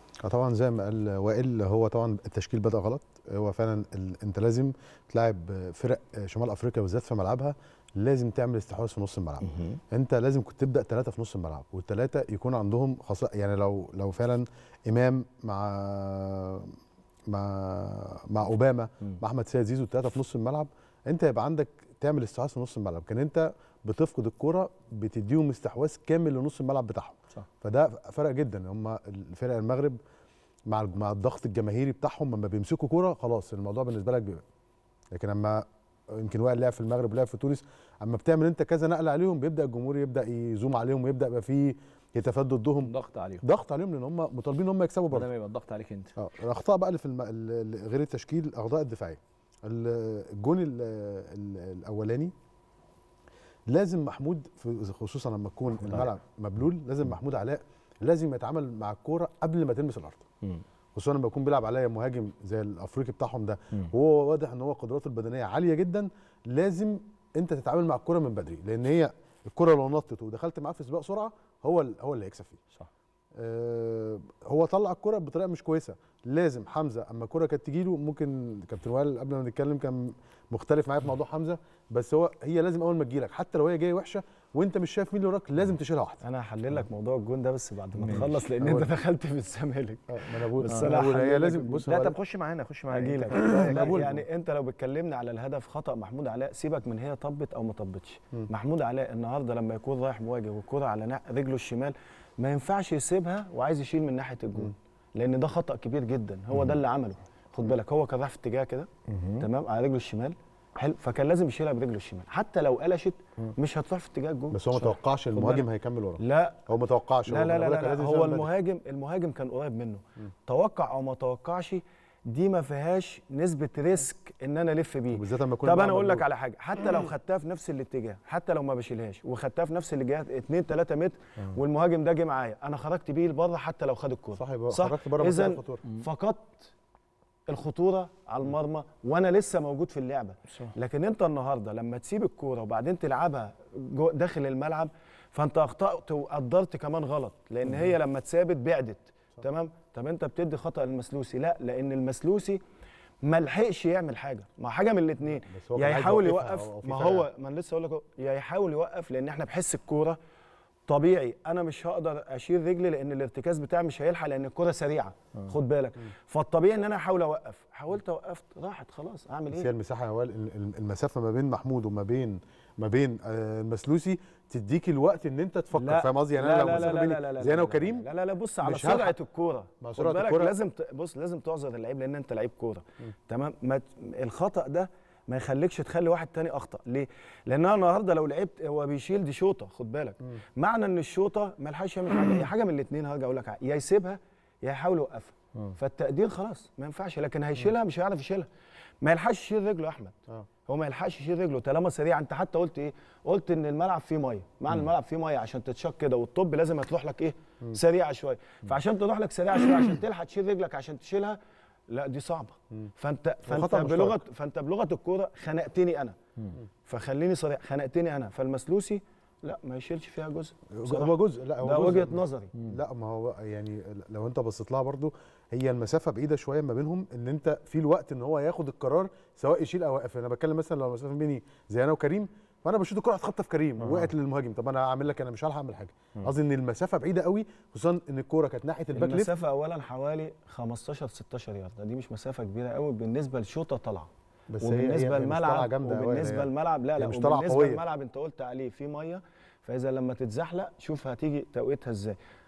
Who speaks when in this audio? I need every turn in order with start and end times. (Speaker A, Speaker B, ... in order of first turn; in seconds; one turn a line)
Speaker A: 0.2-16.8
Speaker B: 9.5-9.8
Speaker A: 17.3-30.0
Speaker A: 30.7-34.4
Speaker A: 35.1-45.3
Speaker B: 42.8-43.4
Speaker B: 45.1-46.1
Speaker A: 46.2-52.3
Speaker A: 53.7-60.3
Speaker A: 61.0-72.6
Speaker A: 73.4-86.2
Speaker C: 86.2-91.9
Speaker B: 88.0-88.3
Speaker A: 88.1-88.9
Speaker A: 90.1-92.2
Speaker B: 91.9-94.0
Speaker C: 92.9-108.9
Speaker A: 93.3-94.2
Speaker B: 109.1-109.5
Speaker C: 109.4-115.7
Speaker A: 114.5-118.5
Speaker C: 116.2-116.6
Speaker C: 117.3-136.7
Speaker A: 125.1-126.3
Speaker A: 134.3-135.8
Speaker C: 137.5-152.6
Speaker C: 153.2-160.2
Speaker A: 155.5-157.3
Speaker C: 160.9-169.7
Speaker A: 169.5-178.1
Speaker C: 175.8-198.5
Speaker A: 178.6-179.2
Speaker A: 179.8-180.6
Speaker C: 199.0-211.4
Speaker C: 211.9-216.2
Speaker A: 213.5-214.2
Speaker C: 216.8-222.5
Speaker A: 220.7-239.3
Speaker C: 233.8-234.1
Speaker C: 238.9-244.1
Speaker A: 244.5-247.8
Speaker C: 244.6-252.2